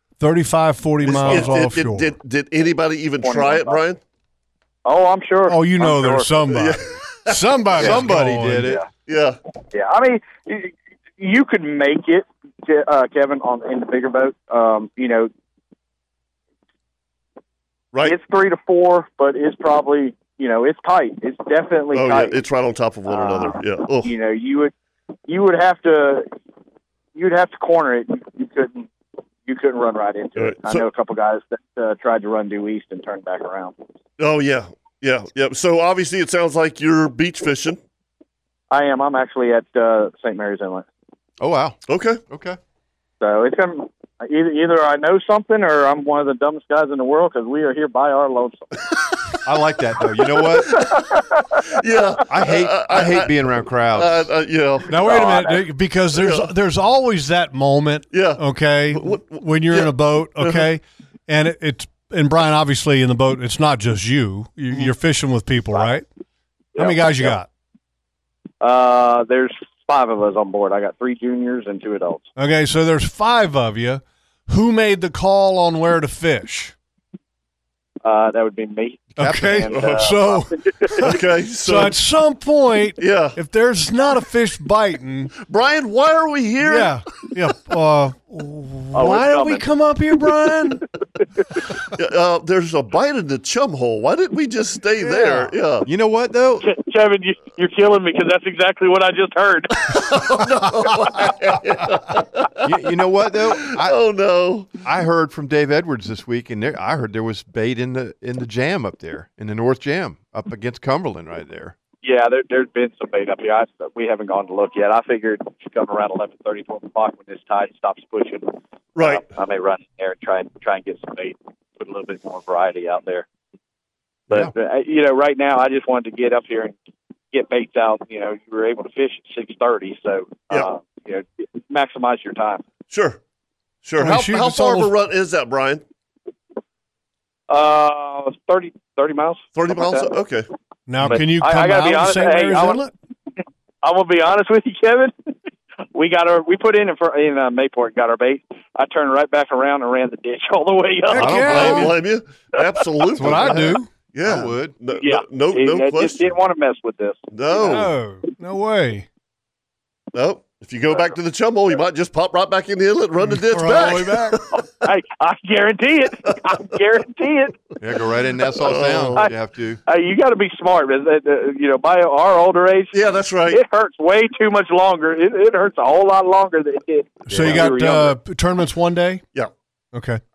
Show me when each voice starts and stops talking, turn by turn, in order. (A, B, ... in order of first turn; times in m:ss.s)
0:00.2-0:02.1 A
0:01.0-0:04.0 B
0:03.2-0:03.8 C
0:04.8-0:06.4 C
0:05.5-0:08.8 A
0:06.5-0:08.0 B
0:07.8-0:08.8 D
0:08.6-0:08.9 C
0:09.1-0:09.4 B
0:09.7-0:15.3 C
0:18.0-0:22.4 C
0:21.9-0:24.1 B
0:23.1-0:24.7 C
0:25.3-0:26.3 C
0:27.1-0:28.9 C
0:29.4-0:33.8 C
0:30.4-0:30.8 B
0:34.2-0:37.8 B
0:38.7-0:40.8 C
0:41.4-0:42.6 D
0:41.9-0:42.2 B
0:43.2-0:48.8 C
0:49.4-0:50.9 D
0:50.7-0:51.0 B
0:50.8-0:51.6 C
0:51.7-0:53.4 B
0:52.3-0:54.3 D
0:53.9-0:55.6 B
0:54.9-1:06.0 A
0:55.0-0:55.6 C
0:56.1-0:56.5 B
0:58.1-1:00.6 B
1:06.7-1:07.4 C
1:06.8-1:07.5 A
1:08.6-1:12.3 C
1:12.4-1:16.7 A
1:18.0-1:21.1 C
1:19.2-1:25.3 A
1:19.2-1:19.7 D
1:19.7-1:20.1 B
1:21.0-1:22.0 B
1:23.0-1:23.4 B
1:25.4-1:27.0 B
1:26.6-1:30.8 A
1:28.9-1:29.6 C
1:31.9-1:35.9 B
1:35.0-1:35.5 A
1:35.8-1:36.7 D
1:36.6-1:40.3 C
1:39.9-1:42.8 B
1:42.6-1:44.0 D
1:43.3-1:44.7 B
1:44.8-1:51.8 D
1:52.0-2:03.2 C
1:58.9-1:59.2 B
2:04.3-2:06.7 C
2:07.3-2:12.6 C
2:12.9-2:13.2 B
2:13.8-2:15.8 B
2:14.0-2:14.9 A
2:17.5-2:20.2 C
2:19.5-2:20.5 B
2:20.9-2:22.9 A
2:21.0-2:22.9 C
2:23.8-2:25.3 C
2:25.9-2:31.8 C
2:31.1-2:31.9 A
2:31.2-2:31.9 D
2:31.3-2:36.3 B
2:32.6-2:32.8 C
2:33.2-2:33.9 A
2:33.2-2:34.8 D
2:34.9-2:37.8 C
2:37.3-2:37.9 B
2:37.5-2:39.1 A
2:40.1-2:44.7 B
2:43.3-2:44.4 A
2:44.8-2:47.6 C
2:47.8-2:49.8 D
2:48.6-2:49.2 B
2:49.8-2:58.2 C
2:52.9-2:53.6 B
2:57.3-2:59.2 A
2:57.4-2:57.6 B
2:59.9-3:00.2 A